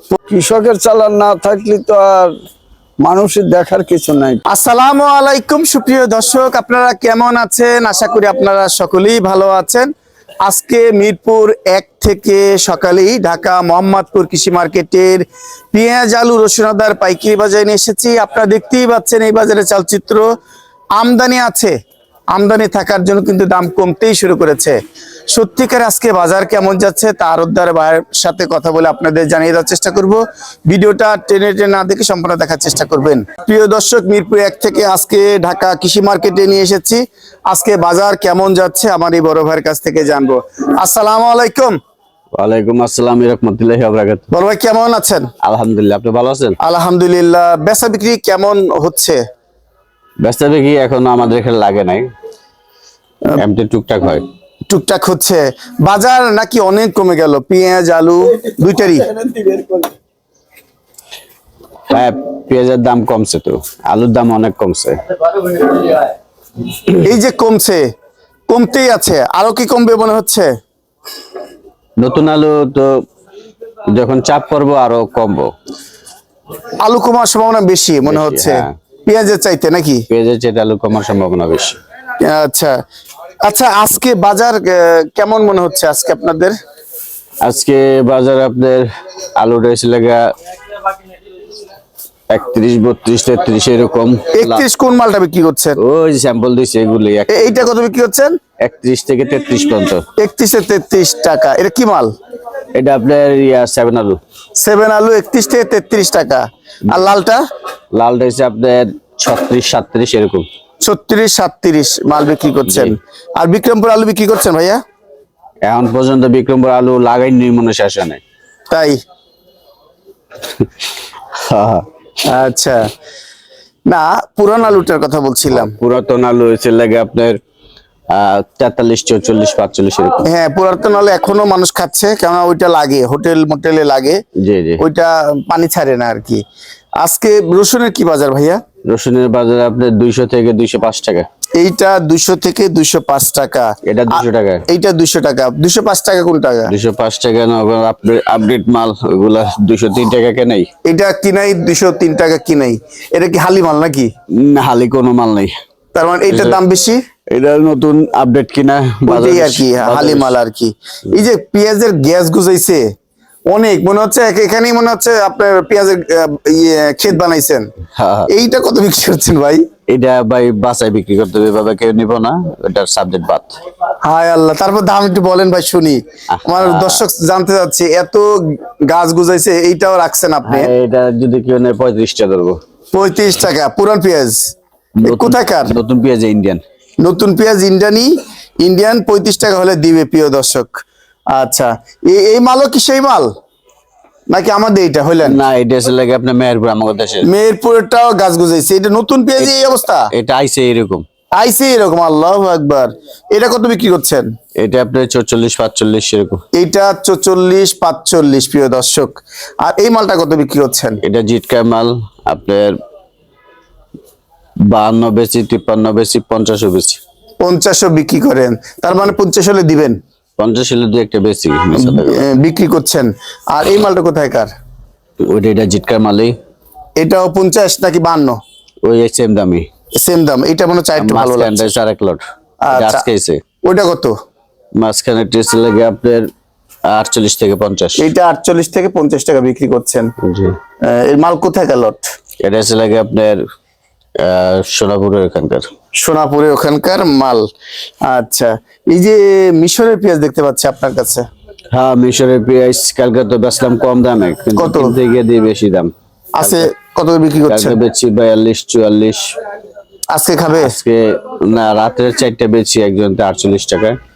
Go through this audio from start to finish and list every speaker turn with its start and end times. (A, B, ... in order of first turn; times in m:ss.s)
0:00.3-0:02.3 A
0:03.0-0:04.4 A
0:04.5-0:09.9 B
0:10.4-0:20.3 B
0:21.0-0:21.7 B
0:22.3-0:24.8 B
0:25.3-0:41.8 B
0:42.3-0:44.3 C
0:44.3-0:45.3 B
0:45.4-0:46.6 C
0:46.6-0:49.2 B
0:50.2-0:52.1 C
0:53.4-0:54.2 C
0:54.7-0:59.1 B
0:59.0-0:59.9 A
1:01.9-1:05.6 C
1:07.0-1:07.8 B
1:08.5-1:10.5 B
1:12.0-1:12.9 C
1:13.9-1:15.5 C
1:16.8-1:20.0 B
1:18.0-1:18.7 C
1:20.1-1:21.8 C
1:22.2-1:22.7 B
1:23.4-1:26.5 B
1:27.4-1:30.2 C
1:32.3-1:34.6 C
1:34.3-1:35.8 B
1:35.8-1:37.6 C
1:37.3-1:38.4 B
1:38.6-1:40.0 C
1:40.2-1:42.1 B
1:42.7-1:44.2 C
1:44.6-1:47.4 B
1:47.9-1:50.4 C
1:50.8-1:54.8 B
1:52.7-1:53.0 C
1:55.6-1:58.2 C
1:58.7-1:59.0 B
2:01.4-2:01.8 C
2:02.2-2:02.8 B
2:03.9-2:05.7 B
2:05.5-2:07.4 C
2:08.1-2:10.2 C
2:10.2-2:14.2 B
2:14.4-2:14.8 C
2:14.8-2:16.4 B
2:17.0-2:18.6 B
2:18.9-2:21.3 C
2:21.6-2:26.7 B
2:23.8-2:24.6 C
2:26.7-2:30.7 C
2:30.8-2:34.1 B
2:34.3-2:35.5 C
2:35.9-2:37.0 B
2:36.3-2:36.6 C
2:37.3-2:40.3 C
2:39.1-2:42.8 B
2:43.5-2:47.7 B
2:48.0-2:48.3 C
2:48.3-2:49.7 B
2:49.9-2:53.6 C
2:54.0-3:00.7 B
2:56.3-2:57.0 C
3:00.4-3:02.6 C
3:02.9-3:05.8 B
3:05.0-3:06.6 C
3:07.0-3:08.1 B
3:08.6-3:13.3 B
3:14.3-3:15.4 B
3:15.2-3:17.3 C
3:17.2-3:20.1 B
3:20.1-3:21.0 C
3:21.4-3:24.3 B
3:24.6-3:26.4 C
3:26.5-3:31.0 B
3:31.0-3:32.8 C
3:34.7-3:37.0 C
3:37.4-3:40.0 B
3:40.4-3:42.2 C
3:41.8-3:44.5 B
3:45.2-3:46.3 C
3:47.0-3:48.4 B
3:48.8-3:49.7 C
3:50.0-3:51.7 B
3:51.0-3:53.4 C
3:52.6-3:53.0 B
3:53.6-3:54.1 B
3:54.8-3:56.3 C
3:56.9-3:58.1 C
3:58.0-4:00.1 B
4:00.2-4:00.6 C
4:00.8-4:02.0 B
4:02.4-4:03.4 C
4:04.2-4:05.7 C
4:06.0-4:07.4 B
4:08.0-4:11.2 B
4:11.7-4:16.7 C
4:14.6-4:14.9 B
4:16.4-4:17.8 B
4:17.5-4:19.3 C
4:20.1-4:20.7 B
4:20.6-4:24.0 C